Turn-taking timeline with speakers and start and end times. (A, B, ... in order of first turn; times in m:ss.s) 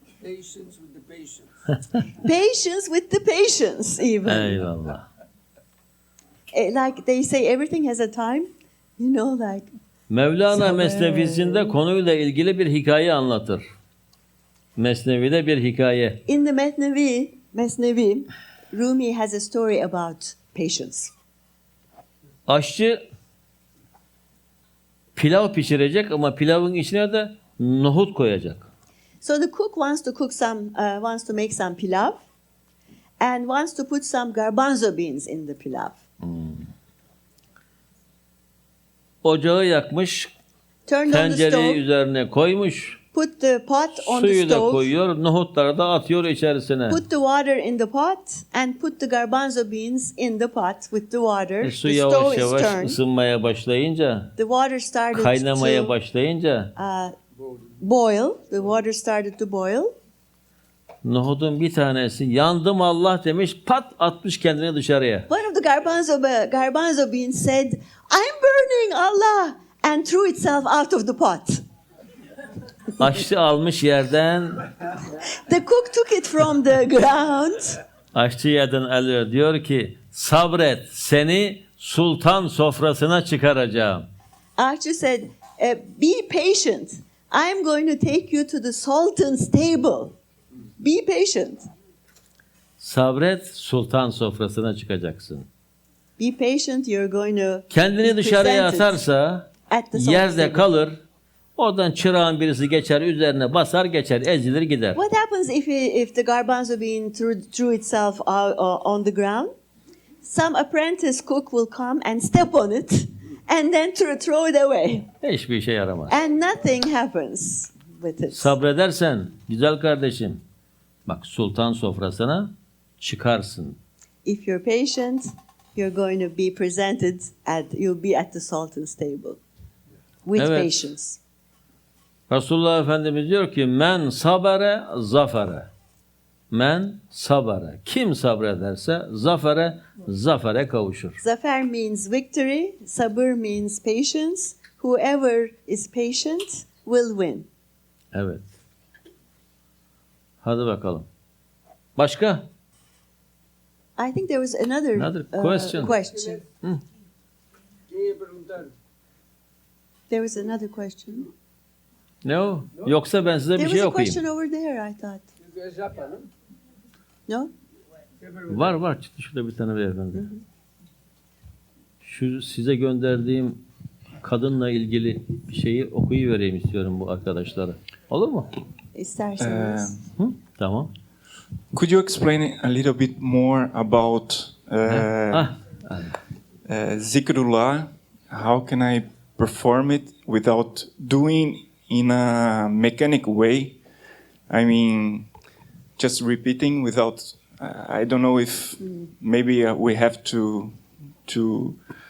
0:00.2-0:01.7 A
0:02.2-0:04.6 B
0:04.2-0:05.1 C
0:06.5-0:09.7 B
0:10.1-0:13.6 C
0:10.5-0:11.8 B
0:14.8-0:16.2 C
0:16.3-0:21.1 B
0:22.5-0:23.0 C
0:25.2-0:28.7 C
0:29.2-0:32.2 B
0:33.2-0:36.0 B
0:36.2-0:36.7 C
0:39.2-0:40.3 C
0:40.9-0:41.8 B
0:41.1-0:43.0 C
0:43.1-0:44.9 B
0:44.0-0:47.0 C
0:46.9-0:53.0 B
0:51.6-0:54.3 C
0:54.4-0:55.9 B
0:55.1-0:56.7 C
0:56.8-0:57.2 B
0:57.8-1:00.0 B
1:01.0-1:05.3 C
1:05.3-1:11.6 B
1:13.0-1:14.7 C
1:15.3-1:17.8 B
1:18.1-1:24.1 C
1:24.6-1:30.2 B
1:30.8-1:31.7 B
1:32.8-1:35.5 C
1:36.2-1:39.0 B
1:37.7-1:41.0 C
1:39.7-1:40.8 B
1:41.6-1:45.0 C
1:45.0-1:49.5 B
1:50.2-1:55.1 B
1:55.2-1:56.1 C
1:56.1-1:58.6 B
1:58.3-2:00.4 C
2:01.1-2:03.8 C
2:04.2-2:09.4 B
2:10.2-2:11.2 B
2:10.4-2:10.7 C
2:12.3-2:15.7 C
2:16.5-2:21.2 C
2:21.2-2:27.5 B
2:28.1-2:28.5 C
2:30.4-2:31.1 C
2:32.0-2:32.5 C
2:34.0-2:36.4 B
2:35.0-2:36.0 C
2:35.8-2:36.5 A
2:37.9-2:38.7 A
2:40.1-2:41.3 B
2:42.2-2:44.2 C
2:43.6-2:45.2 B
2:45.4-2:46.3 A
2:48.2-2:48.8 A
2:48.5-2:50.3 C
2:50.1-2:50.4 B
2:52.0-2:53.6 C
2:54.2-2:58.5 C
2:59.0-2:59.9 B
2:59.4-3:00.0 D
3:00.2-3:00.9 C
3:01.7-3:05.5 D
3:04.9-3:06.2 C
3:06.7-3:13.8 D
3:14.5-3:15.3 D
3:16.0-3:21.8 D
3:18.8-3:19.1 B